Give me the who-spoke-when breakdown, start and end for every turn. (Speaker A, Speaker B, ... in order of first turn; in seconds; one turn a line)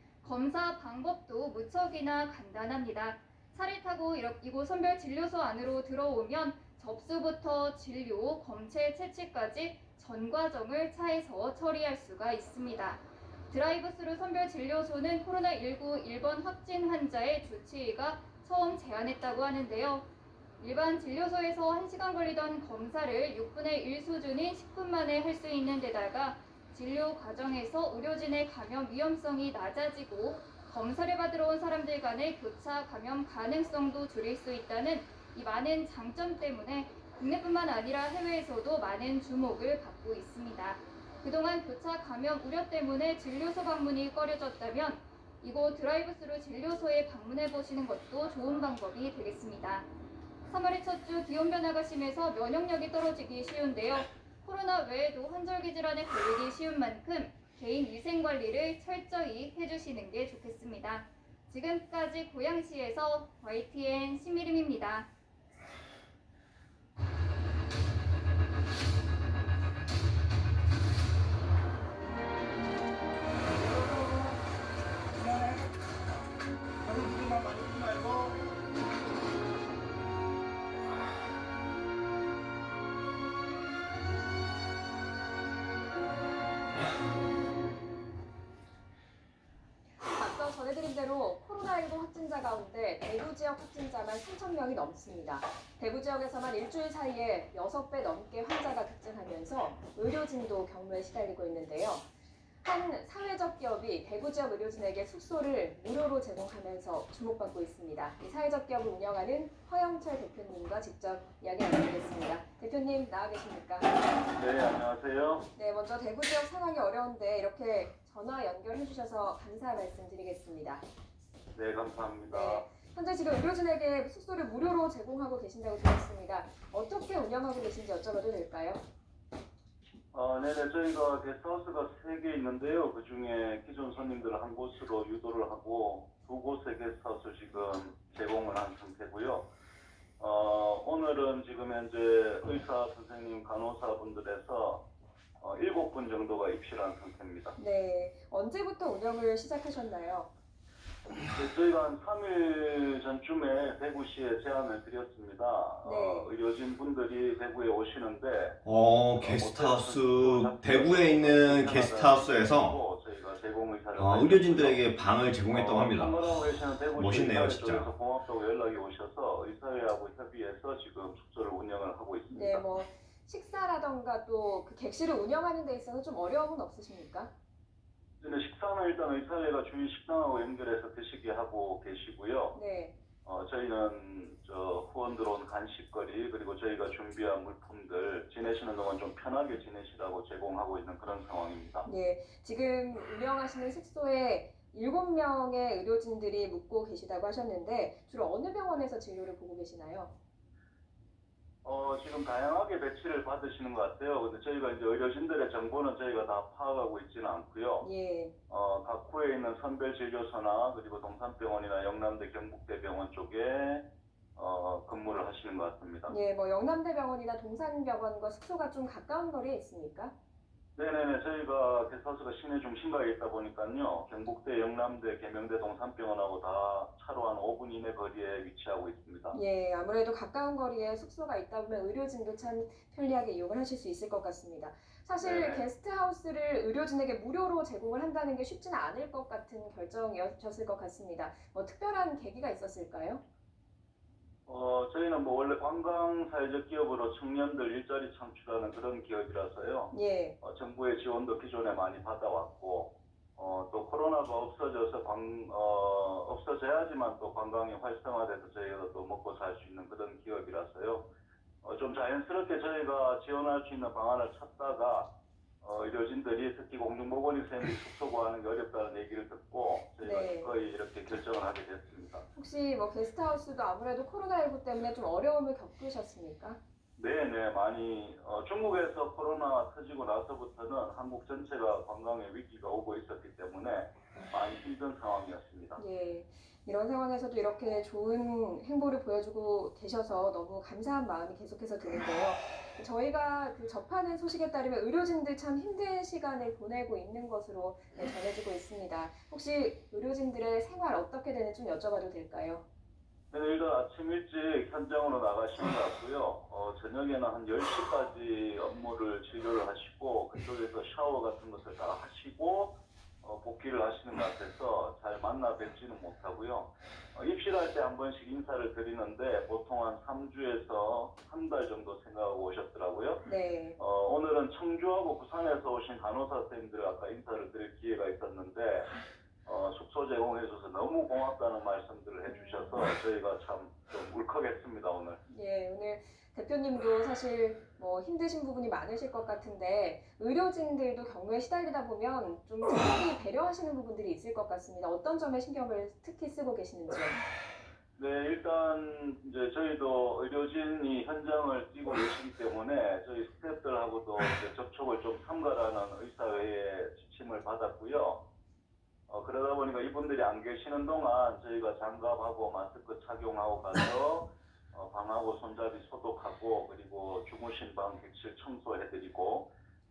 Speaker A: 0.2-20.1
Speaker A: 20.6-49.9
Speaker A: 50.5-65.1
Speaker B: 90.1-102.0
Speaker B: 102.6-113.9
Speaker C: 114.3-115.5
Speaker B: 115.5-120.8
Speaker C: 121.5-122.6
Speaker B: 122.3-128.8
Speaker C: 130.1-139.5
Speaker C: 140.2-144.8
Speaker C: 145.4-147.5
Speaker B: 147.6-150.3
Speaker C: 151.1-158.6
Speaker B: 155.8-156.3
Speaker D: 158.6-162.8
Speaker C: 159.2-172.6
Speaker D: 163.9-167.9
Speaker B: 172.3-177.3
Speaker C: 178.2-182.6
Speaker B: 182.5-182.9
Speaker C: 183.2-191.9
Speaker B: 191.8-200.1
Speaker C: 201.6-207.8
Speaker B: 207.8-208.3
Speaker C: 208.5-213.8
Speaker C: 214.3-216.1
Speaker B: 216.1-220.1
Speaker C: 220.8-229.3
Speaker B: 229.3-243.2
Speaker C: 235.2-235.6
Speaker C: 244.5-261.1
Speaker B: 249.9-250.3
Speaker C: 261.6-272.2
Speaker B: 270.0-270.5
Speaker B: 272.4-276.6
Speaker C: 277.0-285.8
Speaker B: 285.8-302.6
Speaker C: 303.3-323.2
Speaker B: 323.2-323.8
Speaker C: 323.8-328.9
Speaker C: 329.4-335.2
Speaker B: 332.3-332.8
Speaker B: 335.3-347.2
Speaker C: 348.0-358.2
Speaker C: 359.1-369.5